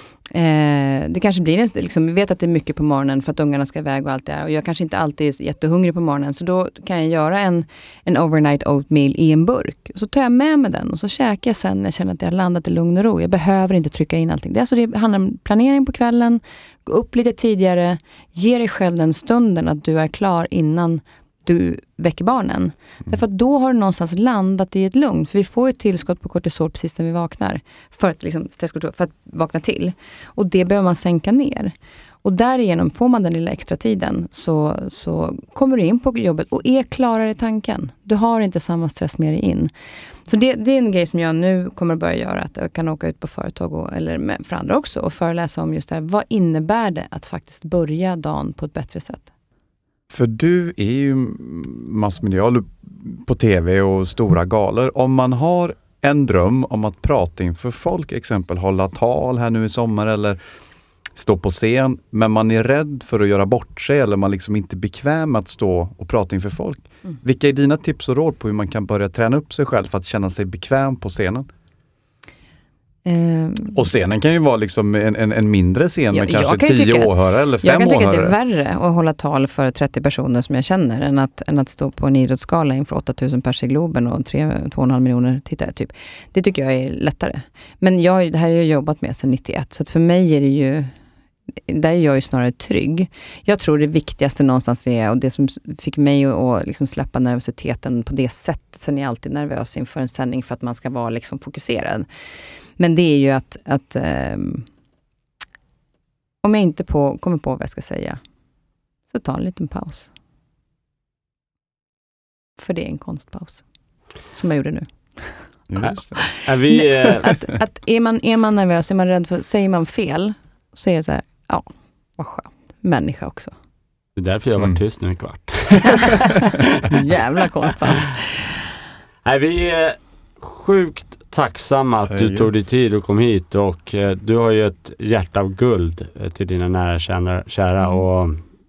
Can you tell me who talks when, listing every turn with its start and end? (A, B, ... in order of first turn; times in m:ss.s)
0:00.3-0:39.7 A
0:40.3-0:49.3 A
0:50.1-1:00.4 B
1:01.1-1:11.5 B
1:13.0-1:13.8 A
1:13.7-1:18.3 B
1:16.1-1:30.9 A
1:31.6-1:42.0 A
1:42.8-1:44.6 A
1:46.4-1:48.2 A
1:49.1-1:50.1 A
1:52.6-1:53.6 A
1:54.3-1:55.4 A
1:55.7-1:56.2 B
1:56.1-2:03.5 A
1:56.4-1:57.4 C
2:04.2-2:06.6 C
2:06.8-2:08.5 A
2:09.2-2:18.4 C
2:12.1-2:12.5 B